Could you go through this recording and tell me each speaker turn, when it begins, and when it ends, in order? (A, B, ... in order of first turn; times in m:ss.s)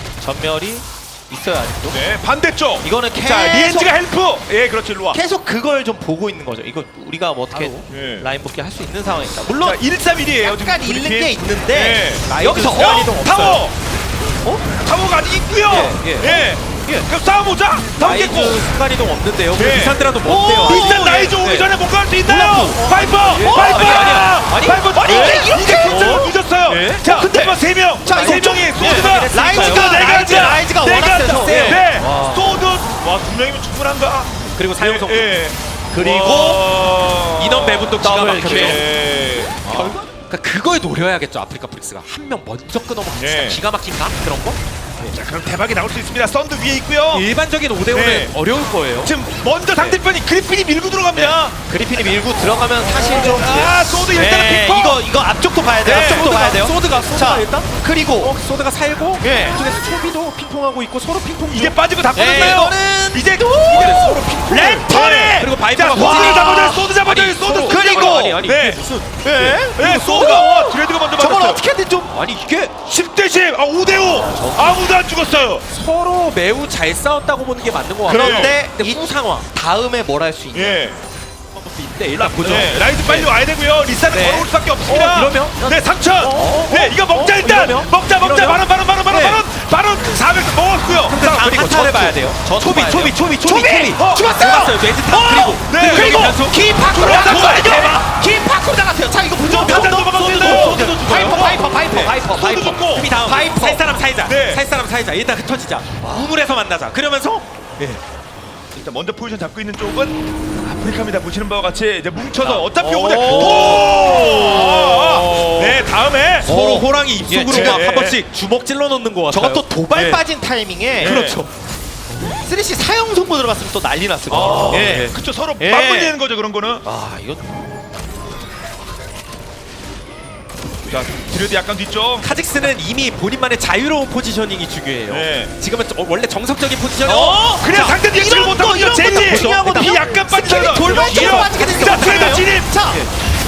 0:00.2-0:02.0 A
0:01.9-0:05.2 B
0:02.8-0:04.0 A
0:05.1-0:09.8 A
0:07.5-0:07.8 C
0:07.9-0:08.3 B
0:09.6-0:13.7 B
0:10.4-0:13.0 A
0:12.2-0:13.6 C
0:14.7-0:18.6 B
0:15.6-0:17.1 C
0:18.0-0:21.7 C
0:19.6-0:40.0 B
0:20.2-0:21.4 A
0:22.2-0:27.2 C
0:22.6-0:24.3 A
0:24.9-0:26.4 A
0:27.0-0:32.4 A
0:28.0-0:30.6 C
0:31.4-0:32.4 C
0:34.5-0:35.3 C
0:35.9-0:36.6 A
0:37.4-0:38.9 C
0:38.0-0:38.9 A
0:39.6-0:40.1 A
0:39.7-0:45.1 C
0:43.1-0:43.6 B
0:45.1-0:47.3 B
0:47.1-0:49.1 C
0:47.9-0:48.3 B
0:49.0-0:51.6 B
0:49.7-0:50.0 C
0:51.1-0:51.4 C
0:51.7-0:58.4 A
0:52.9-0:55.0 B
0:55.8-1:02.8 C
0:55.8-0:56.3 B
0:59.2-0:59.6 A
1:01.5-1:11.6 B
1:02.1-1:06.9 A
1:03.5-1:09.2 C
1:07.6-1:08.4 A
1:09.2-1:12.2 A
1:12.1-1:12.8 C
1:12.8-1:15.6 B
1:14.4-1:14.8 A
1:15.7-1:19.5 C
1:18.0-1:20.8 A
1:18.1-1:18.5 B
1:20.5-1:21.0 B
1:21.5-1:23.3 C
1:22.2-1:31.6 B
1:24.1-1:29.4 C
1:26.4-1:26.7 A
1:31.0-1:37.8 C
1:31.3-1:43.8 A
1:33.9-1:34.4 B
1:35.1-1:38.0 B
1:39.4-1:48.0 C
1:39.5-1:41.6 B
1:42.2-1:43.1 B
1:44.2-1:44.6 B
1:46.0-1:46.3 A
1:48.7-1:56.5 B
1:52.4-1:55.8 C
1:53.1-1:54.7 A
1:56.4-2:00.2 C
1:56.4-1:57.8 A
1:57.5-1:58.2 B
1:59.3-2:01.2 A
2:01.0-2:01.4 B
2:01.0-2:01.5 C
2:02.4-2:06.1 A
2:04.3-2:06.8 B
2:04.7-2:05.1 C
2:06.8-2:07.4 A
2:10.8-2:12.2 B
2:12.2-2:17.4 C
2:15.1-2:15.5 B
2:17.0-2:23.0 A
2:17.4-2:22.7 B
2:19.2-2:19.8 C
2:20.8-2:23.1 C